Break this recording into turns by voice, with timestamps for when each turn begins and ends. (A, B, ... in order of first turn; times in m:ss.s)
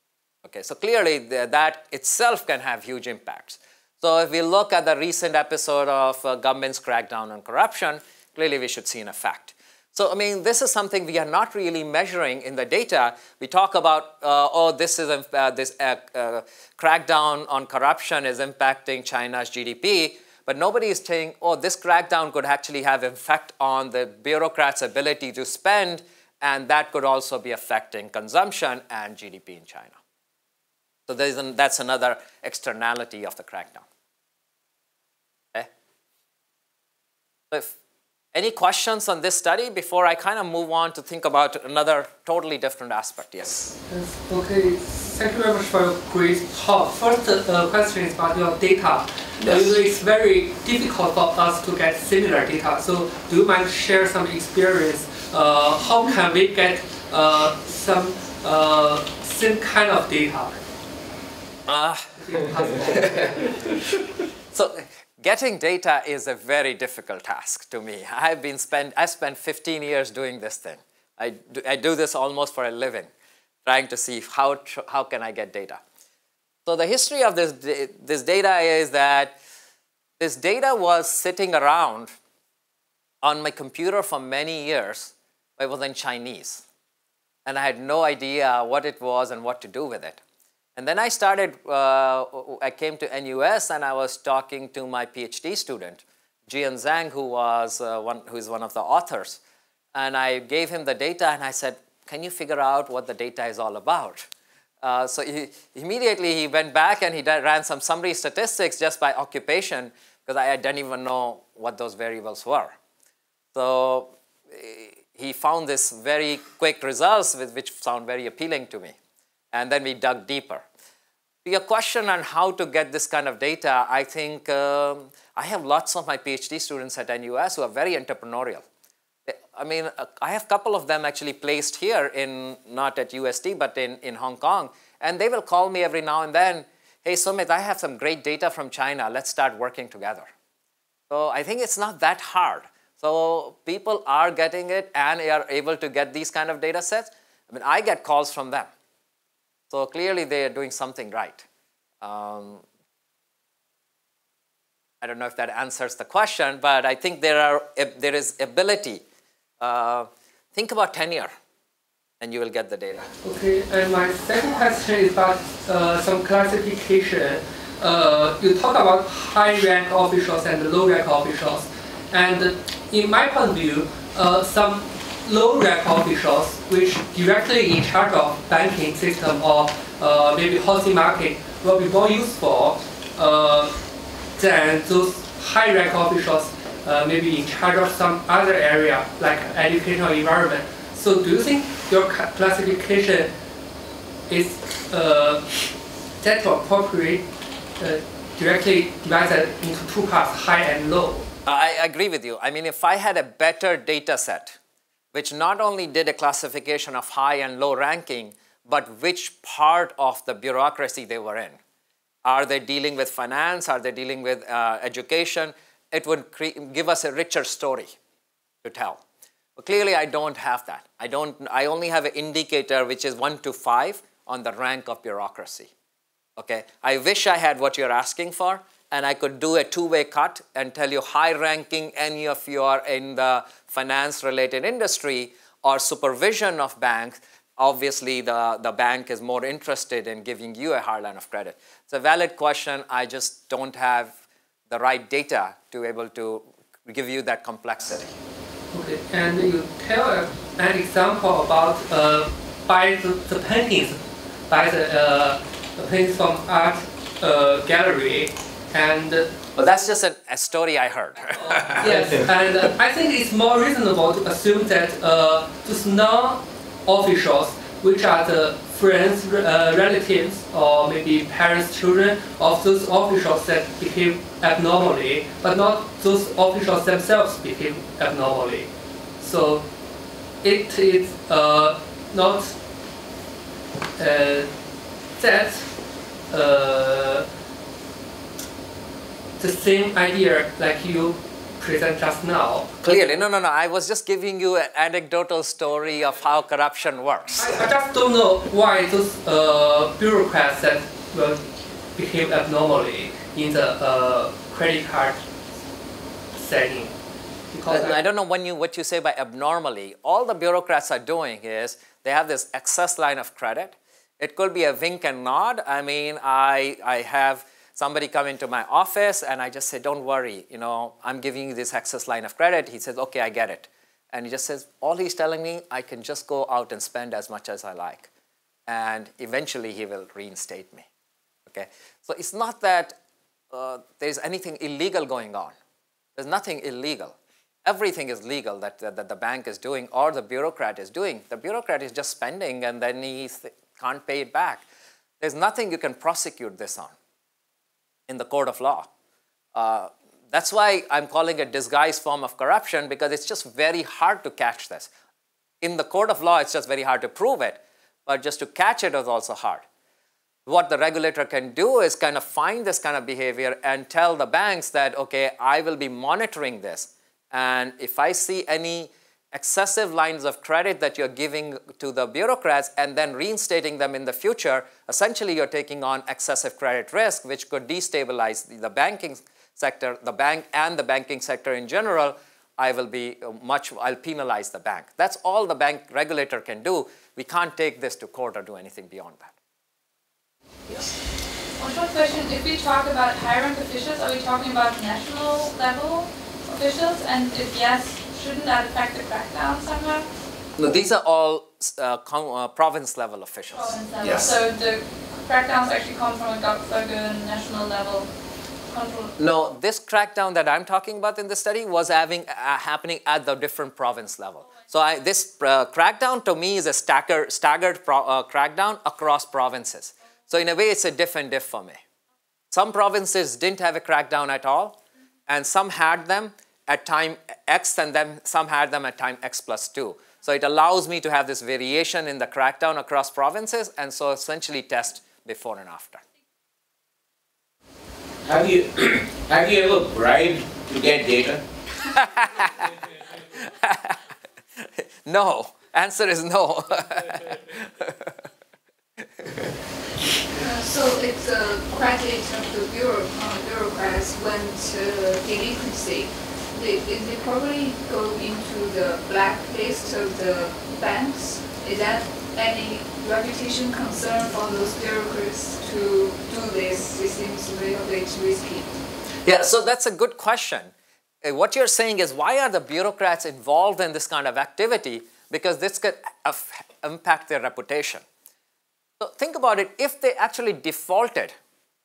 0:00.4-0:30.0 A
0:31.1-0:33.8 A
0:38.3-0:43.7 A
0:43.9-1:00.6 B
0:49.4-0:49.7 A
1:01.7-1:02.1 A
1:02.2-1:03.5 B
1:02.9-1:03.3 A
1:04.5-1:13.1 A
1:13.6-1:15.8 A
1:16.6-1:19.4 A
1:20.2-1:22.1 A
1:23.2-1:26.6 A
1:27.4-1:30.2 A
1:30.8-1:39.4 A
1:39.9-1:44.3 A
1:44.8-1:52.8 A
1:53.5-1:59.0 A
1:59.5-2:00.6 A
2:01.4-2:08.6 A
2:09.3-2:20.3 A
2:21.1-2:28.7 A
2:29.7-2:31.4 A
2:32.0-2:32.6 A
2:35.0-2:39.0 A
2:39.6-2:41.3 A
2:42.2-2:43.1 A
2:43.2-3:03.8 B
3:04.3-3:13.3 B
3:14.3-3:15.6 B
3:16.2-3:17.2 B
3:17.8-3:21.2 B
3:21.4-3:24.6 A
3:25.1-3:31.6 A
3:32.2-3:37.9 A
3:38.6-3:39.0 A
3:39.6-3:45.7 A
3:46.4-4:04.2 A
4:04.7-4:08.1 A
4:08.7-4:19.3 B
4:19.6-4:22.2 A
4:21.7-4:39.7 B
4:40.4-4:42.6 B
4:44.0-4:44.5 B
4:45.2-4:45.8 B
4:46.3-4:47.2 B
4:49.4-4:52.7 B
4:52.8-4:57.5 A
4:57.4-5:01.4 B
5:01.9-5:05.2 B
5:06.3-5:07.0 B
5:07.5-5:08.0 B
5:07.7-5:28.1 A
5:28.7-5:30.9 A
5:31.5-5:33.0 A
5:33.5-5:35.6 A
5:36.2-5:44.6 A
5:45.2-5:46.9 A
5:48.1-5:48.9 A
5:49.5-5:54.9 A
5:55.6-5:59.6 A
6:00.4-6:29.3 A
6:31.6-6:40.1 C
6:40.6-6:44.4 A
6:43.5-6:48.1 C
6:48.7-6:49.1 C
6:49.2-7:01.8 A
7:02.5-7:16.0 A
7:18.3-7:21.4 D
7:21.9-7:22.7 A
7:23.3-7:24.0 A
7:25.0-7:28.1 A
7:30.3-7:48.7 E
7:49.2-7:50.7 A
7:51.2-7:58.0 A
7:59.0-8:01.3 A